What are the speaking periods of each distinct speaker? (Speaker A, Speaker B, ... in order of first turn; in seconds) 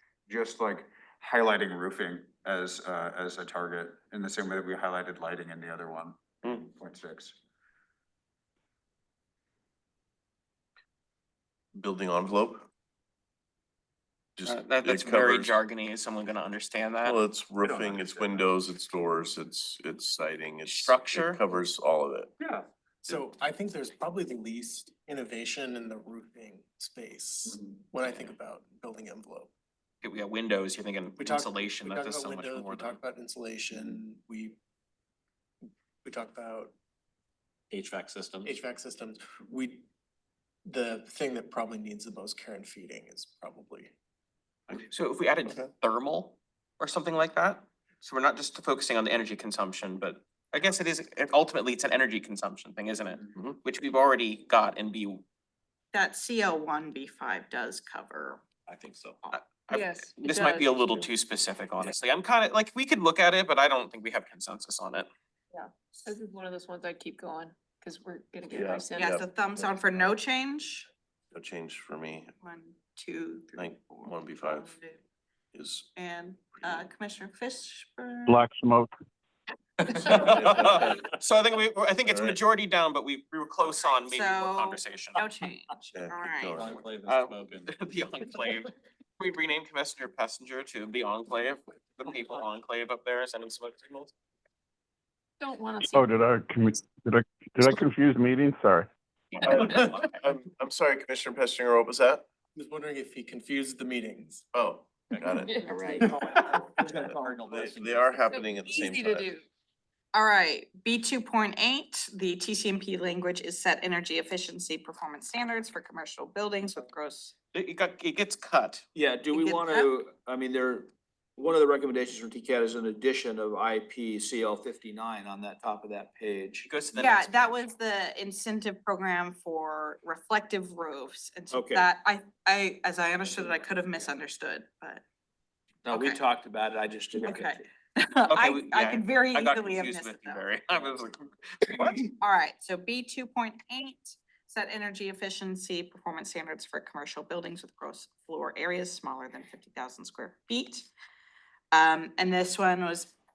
Speaker A: 0.3-7.4, 17.6-18.3
Speaker B: 11.7-12.7, 14.4-15.6, 17.0-22.3, 68.5-70.1, 71.3-72.3, 73.6-74.7, 75.5-75.9, 76.5-76.9, 80.2-80.9, 82.0-82.4, 85.9-86.8, 99.4-102.3, 104.5-105.6, 107.4-109.3
Speaker C: 14.4-17.2, 20.7-21.4, 30.0-33.0, 44.9-55.2, 59.3-65.1, 80.0-85.2, 87.0-94.1, 117.5-118.8, 126.7-127.6, 138.3-142.0
Speaker D: 23.1-29.5, 31.2-34.6, 36.0-36.7, 38.4-39.9, 40.6-43.9, 102.5-104.5
Speaker E: 37.7-38.5, 58.7-59.2, 86.5-87.7, 107.1-108.2
Speaker F: 55.9-58.4, 69.0-70.9, 72.4-75.0, 76.0-78.4, 83.8-86.8, 110.1-117.3, 119.3-119.9, 126.9-135.0, 135.9-136.2, 137.2-140.5, 142.2-150.9, 151.7-153.1
Speaker G: 59.7-60.7, 65.5-69.2, 95.4-96.0, 105.3-106.1, 108.3-109.5
Speaker H: 78.3-78.9, 95.8-98.9
Speaker I: 119.0-126.7, 131.5-131.9, 135.8-137.6